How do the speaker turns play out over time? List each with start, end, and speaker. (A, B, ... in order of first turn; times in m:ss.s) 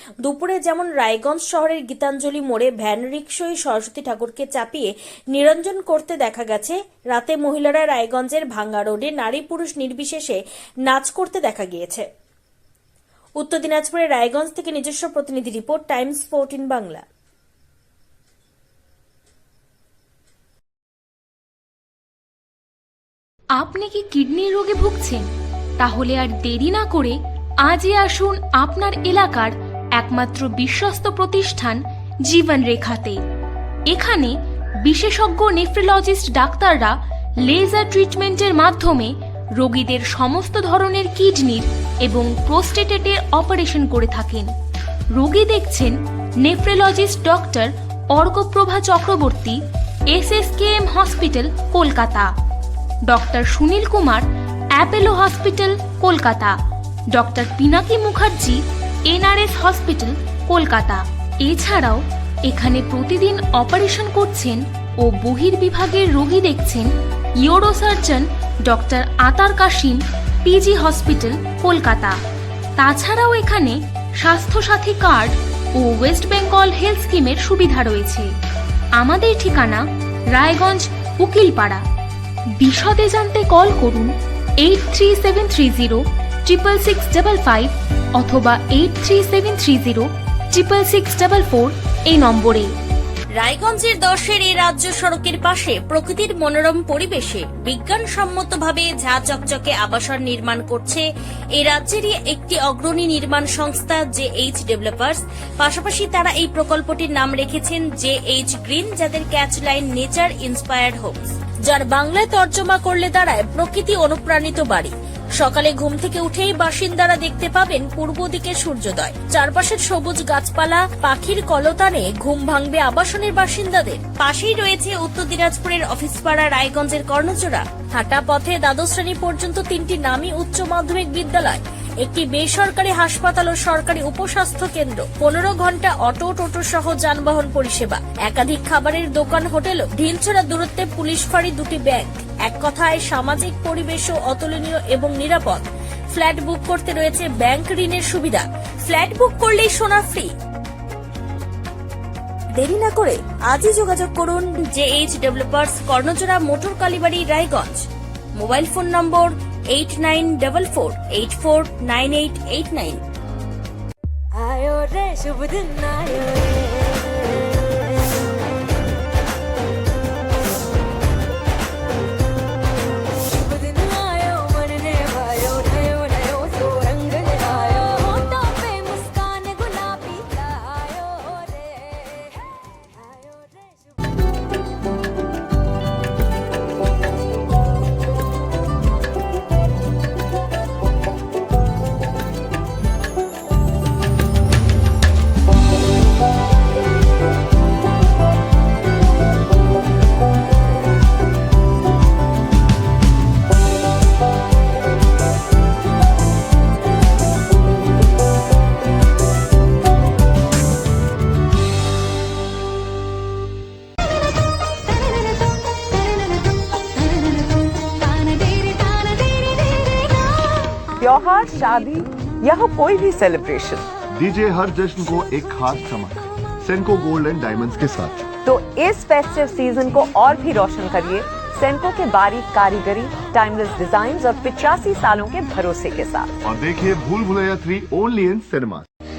0:00.2-0:12.0 A
0:13.4-0:17.0 A
0:23.6-0:25.3 B
0:25.8-0:33.2 B
0:33.9-0:44.5 B
0:45.1-0:52.3 B
0:53.1-0:56.6 B
0:57.1-1:12.2 B
1:12.8-1:18.3 B
1:19.0-1:21.8 B
1:22.6-1:32.7 B
1:33.4-1:41.0 A
1:41.6-2:30.3 A
2:32.6-2:43.0 A
2:44.5-2:46.9 C
2:45.4-2:45.8 B
2:53.6-3:01.5 C
2:55.6-2:56.3 B
2:57.1-2:57.6 B
3:38.7-3:39.3 C
3:41.0-3:43.8 D
3:44.1-3:48.3 E
3:48.4-3:56.3 D
3:56.4-3:58.9 E